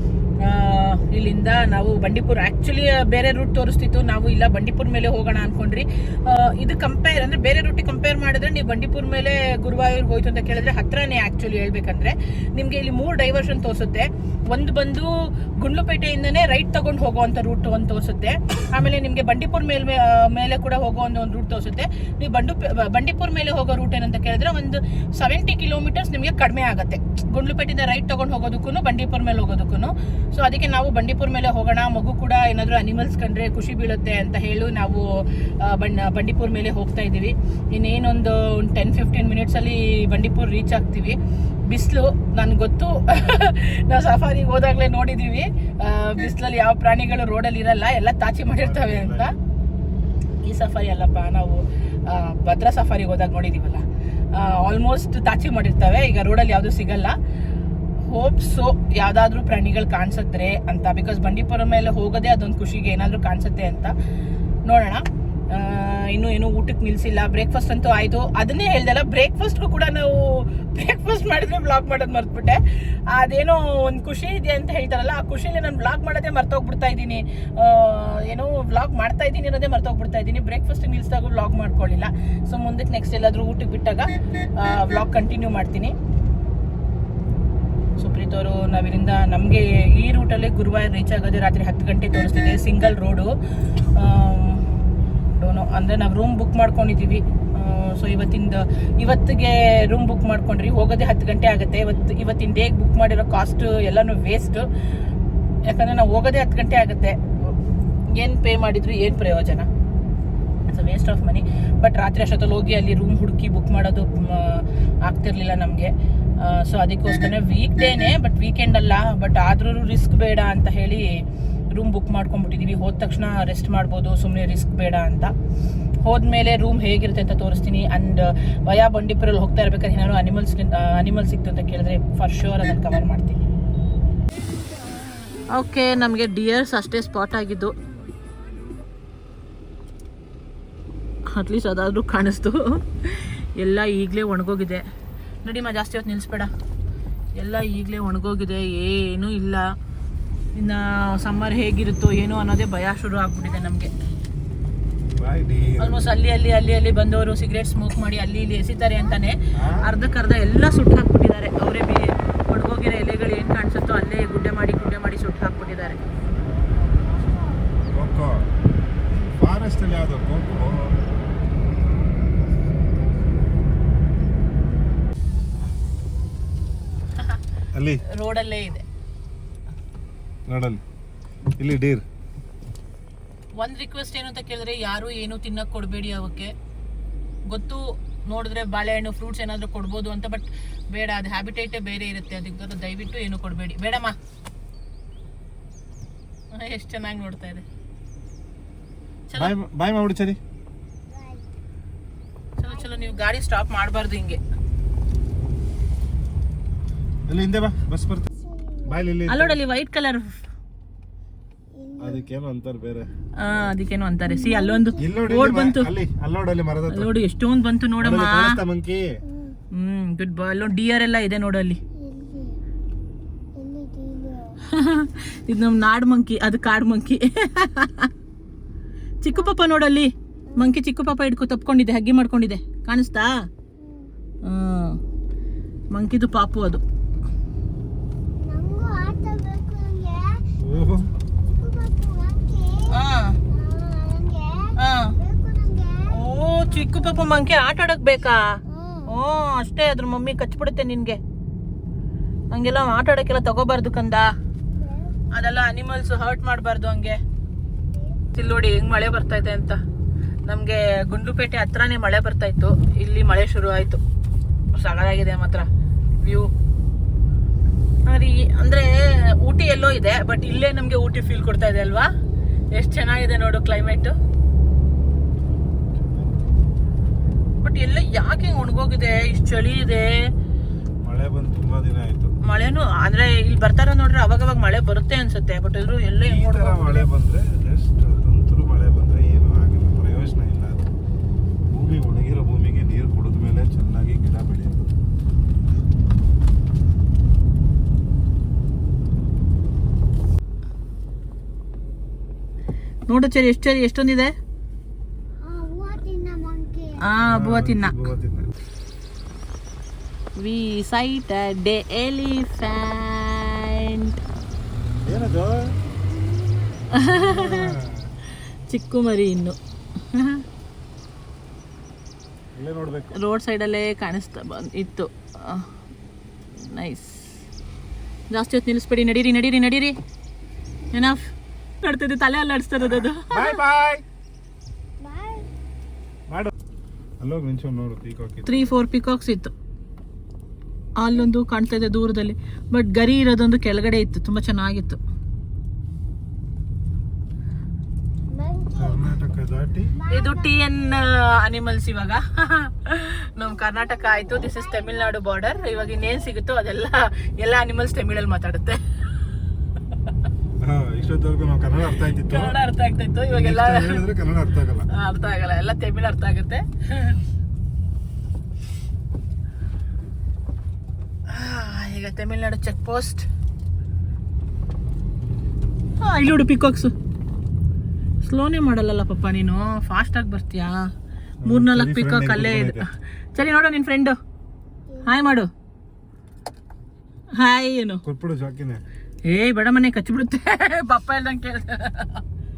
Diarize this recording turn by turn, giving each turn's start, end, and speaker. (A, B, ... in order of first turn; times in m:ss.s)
0:00.4-0:41.2 A
0:41.7-0:49.3 A
0:48.5-0:49.3 B
0:50.4-0:57.2 A
0:58.0-1:03.9 A
1:04.6-1:26.0 A
1:28.0-1:33.3 A
1:33.9-1:34.7 A
1:35.4-1:44.6 A
1:45.7-1:47.6 A
1:48.1-1:49.7 A
1:50.7-2:05.3 A
2:06.0-2:13.4 A
2:15.5-2:17.8 A
2:21.3-2:24.8 A
2:25.4-2:26.5 A
2:27.3-2:29.7 A
2:30.5-2:33.9 A
2:33.6-2:33.8 C
2:35.2-2:36.0 B
2:35.8-2:46.0 A
2:39.5-2:39.8 B
2:45.2-2:47.6 C
2:47.9-2:48.4 B
2:49.1-2:51.0 B
2:51.6-2:53.7 C
2:57.7-2:58.0 B
2:58.0-2:58.8 A
3:00.5-3:00.8 B
3:01.6-3:02.0 B
3:03.6-3:06.5 A
3:07.5-3:14.2 A
3:16.5-3:17.6 A
3:19.3-3:20.4 B
3:21.1-3:21.4 C
3:22.6-3:24.4 A
3:22.7-3:23.3 C
3:27.3-3:28.3 B
3:28.3-3:29.0 C
3:28.8-3:29.6 B
3:29.3-3:30.4 A
3:31.7-3:32.3 C
3:32.0-3:33.1 B
3:33.4-3:35.9 A
3:34.2-3:35.1 C
3:35.0-3:37.1 B
3:36.9-3:38.6 A
3:38.0-3:39.2 B
3:39.2-3:39.6 C
3:39.7-3:41.8 A
3:42.0-3:42.6 C
3:43.5-3:44.6 C
3:44.7-3:48.1 A
3:49.2-3:53.4 A
3:49.3-3:49.6 C
3:50.5-3:50.8 C
3:53.8-3:54.1 C
3:54.4-3:55.0 A
3:55.9-3:56.8 A
3:58.4-4:00.4 C
4:00.6-4:01.1 B
4:01.5-4:03.0 C
4:02.9-4:03.4 A
4:03.5-4:07.4 C
4:04.8-4:05.1 A
4:06.1-4:11.2 A
4:08.6-4:09.1 C
4:12.5-4:14.3 A
4:14.7-4:15.3 C
4:15.3-4:17.2 A
4:17.9-4:18.2 C
4:18.3-4:19.8 A
4:20.4-4:24.0 A
4:24.8-4:25.7 A
4:26.2-4:26.5 A
4:28.0-4:32.1 A
4:32.7-4:34.1 A
4:35.9-4:36.5 B
4:37.6-4:40.2 A
4:41.0-4:42.3 B
4:42.4-4:47.1 A
4:46.2-4:50.9 B
4:51.7-4:54.9 B
5:03.1-5:04.3 A
5:05.4-5:07.1 C
5:07.0-5:08.0 A
5:07.2-5:08.5 B
5:10.4-5:14.2 A
5:15.0-5:15.7 B
5:16.1-5:16.9 C
5:16.9-5:17.7 A
5:17.1-5:18.1 B
5:18.7-5:20.4 A
5:22.6-5:23.2 B
5:23.1-5:25.7 A
5:26.5-5:27.4 A
5:28.3-5:30.0 A
5:30.9-5:31.2 A
5:31.8-5:33.6 A
5:33.3-5:34.0 B
5:35.0-5:35.5 C
5:37.2-5:38.6 B
5:38.4-5:39.5 A
5:41.0-5:45.0 A
5:48.3-5:49.1 C
5:48.8-5:49.9 B
5:49.9-5:51.0 C
5:50.1-5:58.8 A
5:53.4-5:56.4 C
6:00.6-6:02.5 B
6:02.2-6:04.0 A
6:03.3-6:04.9 B
6:04.9-6:07.2 A
6:11.3-6:13.3 A
6:16.0-6:16.9 A
6:18.2-6:20.9 A
6:21.4-6:22.9 B
6:21.4-6:24.2 A
6:24.9-6:25.4 C
6:25.0-6:25.5 A
6:27.3-6:28.0 A
6:28.0-6:28.8 B
6:29.2-6:32.2 A